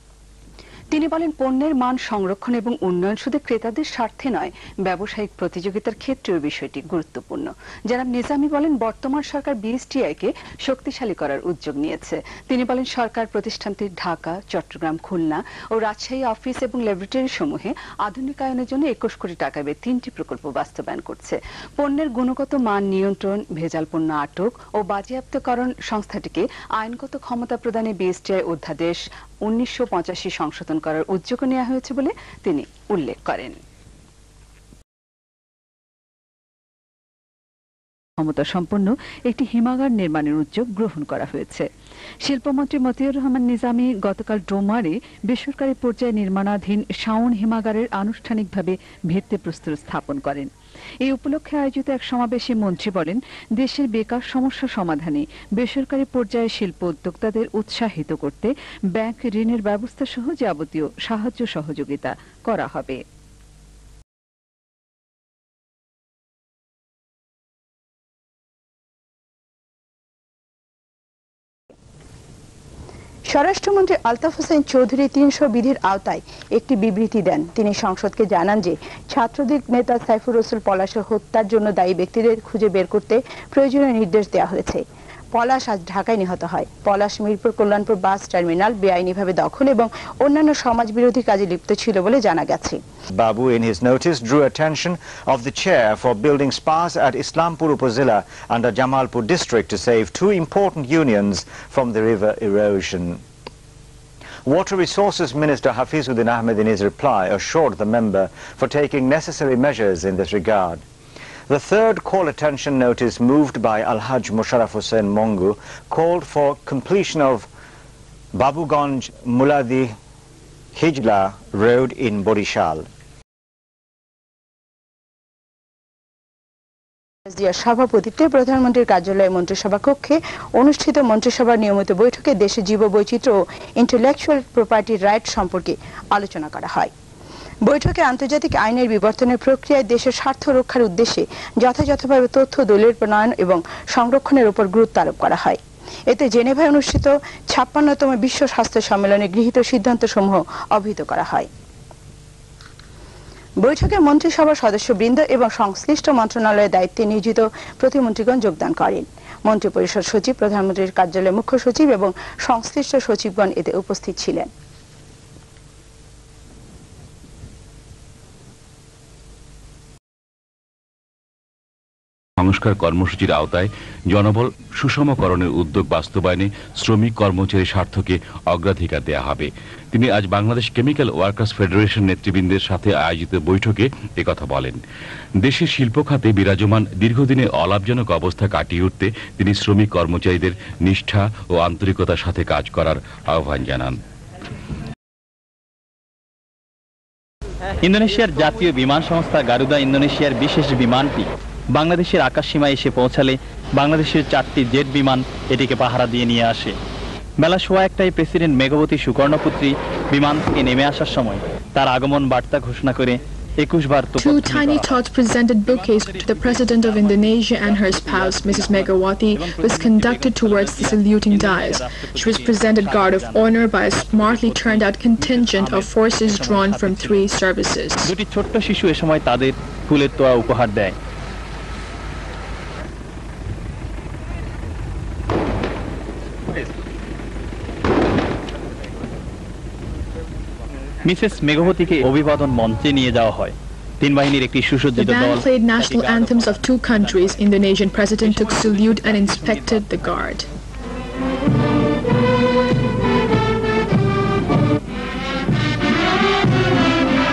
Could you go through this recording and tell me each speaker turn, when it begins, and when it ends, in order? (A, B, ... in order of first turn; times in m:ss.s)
0:00.9-0:33.6 A
0:38.2-0:41.7 A
0:42.2-0:50.5 A
0:51.0-1:03.0 A
1:13.3-1:32.8 B
1:33.1-1:43.2 C
1:44.4-1:50.8 C
1:51.5-1:57.5 C
1:58.4-2:00.0 C
2:00.8-2:02.9 C
2:07.3-2:16.9 B
2:17.7-2:31.5 B
2:33.6-2:44.5 B
2:52.4-3:04.8 D
3:05.4-3:14.0 D
3:17.8-3:26.8 E
3:27.4-3:35.0 E
3:34.2-3:48.1 F
3:35.7-3:47.3 E
3:48.1-3:51.0 E
4:01.0-4:07.3 E
4:05.0-4:10.5 F
4:08.2-4:09.8 E